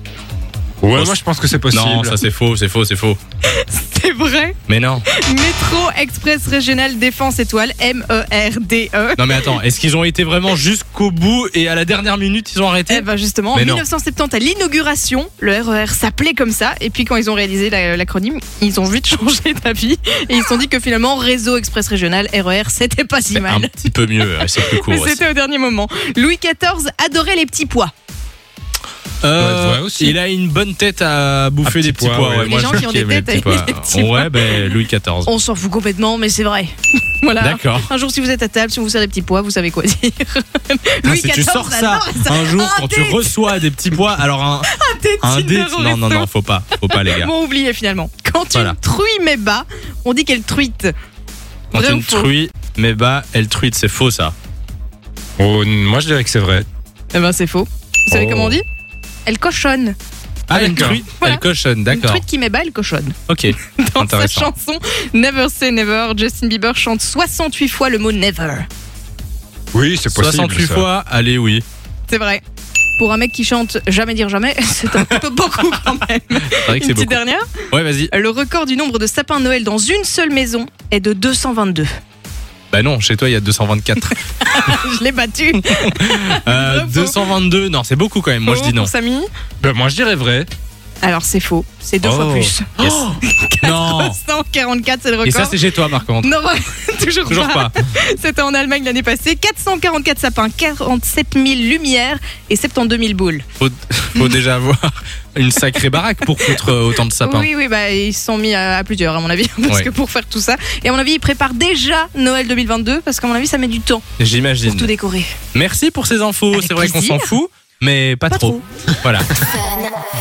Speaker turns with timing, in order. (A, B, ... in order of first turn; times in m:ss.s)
0:00.8-0:02.2 A
0:01.7-0:03.2 B
0:03.5-0:04.6 C
0:04.7-0:05.0 B
0:05.1-0:09.6 C
0:09.2-0:13.8 B
0:12.9-0:27.9 C
0:23.3-0:25.2 B
0:29.2-0:35.3 B
0:29.4-0:30.2 A
0:31.6-0:32.8 A
0:32.4-0:43.4 C
0:37.4-0:37.9 B
0:41.0-0:47.3 B
0:44.7-0:46.3 C
0:46.9-0:50.9 C
0:48.5-0:48.8 B
0:51.7-0:54.3 B
0:51.7-0:52.3 C
0:55.4-0:56.7 A
0:57.1-0:58.6 C
0:58.1-0:58.6 B
0:59.2-1:00.0 C
1:00.5-1:02.2 B
1:00.5-1:03.2 C
1:00.5-1:01.0 A
1:03.3-1:04.5 B
1:03.8-1:08.6 C
1:09.7-1:10.9 A
1:10.1-1:11.6 B
1:12.1-1:12.4 C
1:13.0-1:17.5 C
1:16.5-1:17.2 B
1:17.7-1:18.1 B
1:18.1-1:21.9 C
1:22.7-1:24.8 B
1:24.4-1:27.2 C
1:25.8-1:28.9 B
1:28.4-1:29.3 C
1:29.6-1:30.5 A
1:31.0-1:43.4 C
1:32.0-1:32.6 A
1:32.8-1:34.2 B
1:35.2-1:36.3 B
1:37.3-1:37.7 B
1:43.6-1:47.5 B
1:46.2-1:54.0 C
1:54.2-1:54.9 B
1:54.6-1:55.3 C
1:55.5-1:59.4 B
1:56.5-1:57.3 C
1:58.3-1:58.6 C